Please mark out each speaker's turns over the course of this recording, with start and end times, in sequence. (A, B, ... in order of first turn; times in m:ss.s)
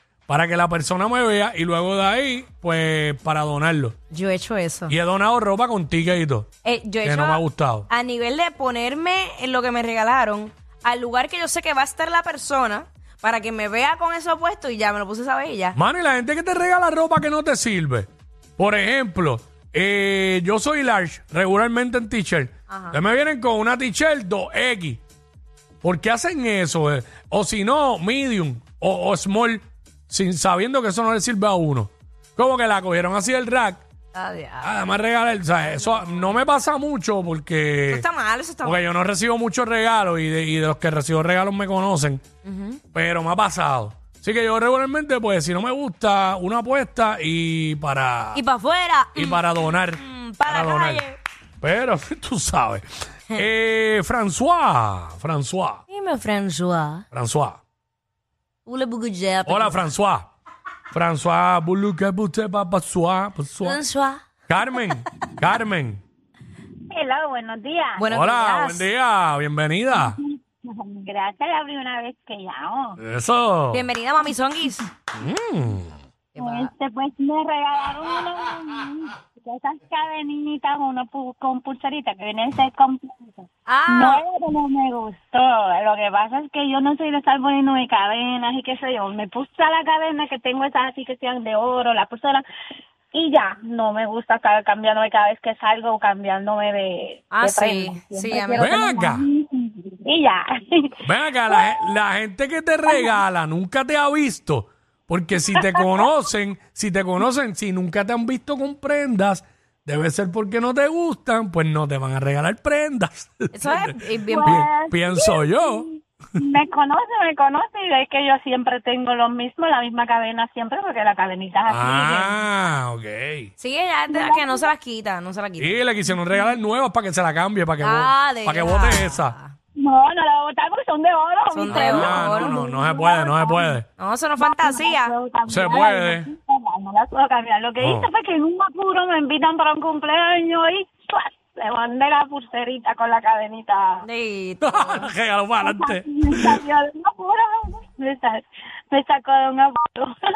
0:00.3-0:04.0 A
0:04.1-0:04.9 B
0:04.9-0:06.5 A
0:06.6-0:15.8 B
0:07.0-0:07.9 A
0:15.8-0:25.0 A
0:22.7-0:23.0 B
0:25.8-0:33.8 A
0:34.1-0:34.7 B
0:34.6-0:38.0 A
0:37.9-0:38.8 B
0:38.6-0:42.2 A
0:42.4-0:42.8 B
0:42.9-0:48.4 A
0:48.3-0:51.2 B
0:49.2-0:51.0 A
0:51.6-0:55.8 A
0:55.9-0:57.0 B
0:57.1-0:57.6 A
0:58.7-0:59.8 B
0:59.5-1:00.3 A
1:00.9-1:03.8 A
1:03.6-1:04.2 B
1:04.5-1:06.0 A
1:06.9-1:08.1 C
1:08.0-1:08.9 B
1:08.1-1:10.2 A
1:10.1-1:13.0 C
1:13.0-1:13.8 A
1:13.7-1:14.9 B
1:15.1-1:16.0 A
1:16.3-1:16.7 B
1:16.4-1:32.4 C
1:23.7-1:24.2 B
1:33.1-1:41.0 C
1:37.3-1:38.8 B
1:38.6-1:39.2 A
1:41.0-1:55.8 A
1:53.5-1:54.7 B
1:54.3-1:55.8 C
1:56.4-2:02.3 C
2:01.7-2:03.5 A
2:03.6-2:05.8 B
2:04.1-2:04.7 C
2:05.6-2:09.4 A
2:07.8-2:09.6 B
2:09.8-2:13.8 C
2:11.5-2:12.6 B
2:11.7-2:13.8 A
2:14.0-2:15.2 B
2:14.4-2:24.0 C
2:15.5-2:16.3 A
2:17.8-2:18.1 A
2:24.0-2:25.1 B
2:24.6-2:26.6 A
2:25.6-2:30.1 C